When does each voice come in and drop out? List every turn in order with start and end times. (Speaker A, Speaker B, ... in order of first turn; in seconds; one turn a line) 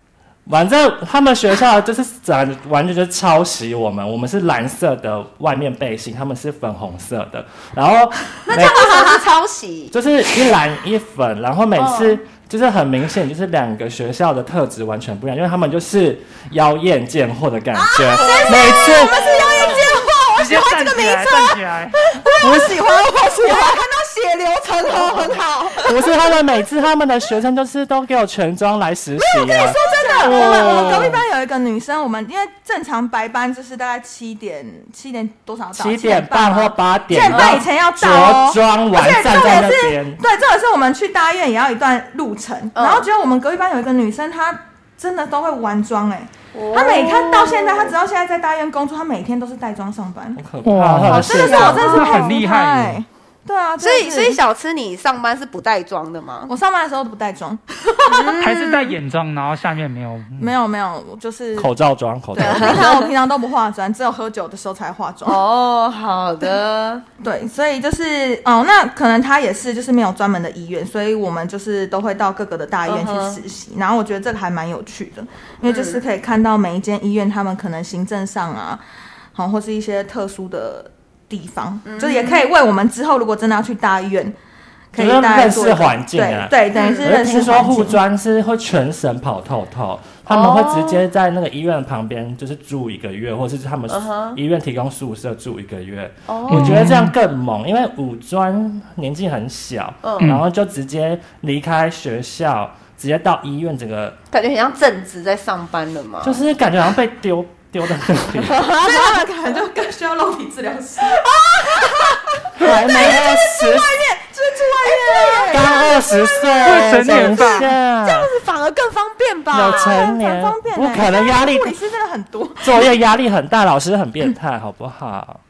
Speaker A: 0.5-9.0
Speaker B: 8.4-9.9
Speaker C: 8.7-9.0
Speaker A: 9.9-19.8
Speaker B: 11.8-12.2
Speaker B: 17.8-21.4
Speaker C: 18.1-23.8
Speaker D: 20.4-22.0
Speaker A: 22.4-22.8
Speaker B: 22.9-25.8
Speaker C: 24.9-26.2
Speaker A: 25.8-31.2
Speaker C: 29.4-50.4
Speaker B: 29.4-31.1
Speaker A: 35.7-40.2
Speaker B: 37.3-37.6
Speaker B: 42.8-43.1
Speaker B: 46.5-47.9
Speaker A: 50.4-52.1
Speaker D: 50.6-53.0
Speaker B: 51.1-52.4
Speaker C: 51.1-54.4
Speaker B: 53.8-56.5
Speaker C: 56.5-58.4
Speaker B: 58.1-59.0
Speaker D: 58.4-60.5
Speaker C: 60.4-61.7
Speaker A: 61.6-62.9
Speaker C: 62.4-65.4
Speaker B: 62.4-63.1
Speaker B: 65.2-67.0
Speaker C: 67.2-78.8
Speaker B: 72.9-73.4
Speaker B: 75.7-76.0
Speaker C: 79.3-84.4
Speaker B: 81.8-82.5
Speaker C: 84.9-88.0
Speaker A: 85.0-104.2
Speaker B: 86.7-87.1
Speaker B: 90.3-91.0
Speaker B: 93.9-94.4
Speaker B: 96.3-96.9
Speaker D: 96.5-97.1
Speaker B: 100.0-100.3
Speaker B: 104.3-106.4
Speaker A: 106.2-108.6
Speaker B: 108.4-109.2
Speaker C: 108.7-117.2
Speaker B: 111.3-112.0
Speaker A: 112.6-113.9
Speaker B: 114.8-115.9
Speaker A: 115.5-118.3
Speaker D: 116.6-117.7
Speaker B: 118.0-120.0
Speaker A: 119.5-121.8
Speaker C: 119.8-122.9
Speaker A: 122.6-125.4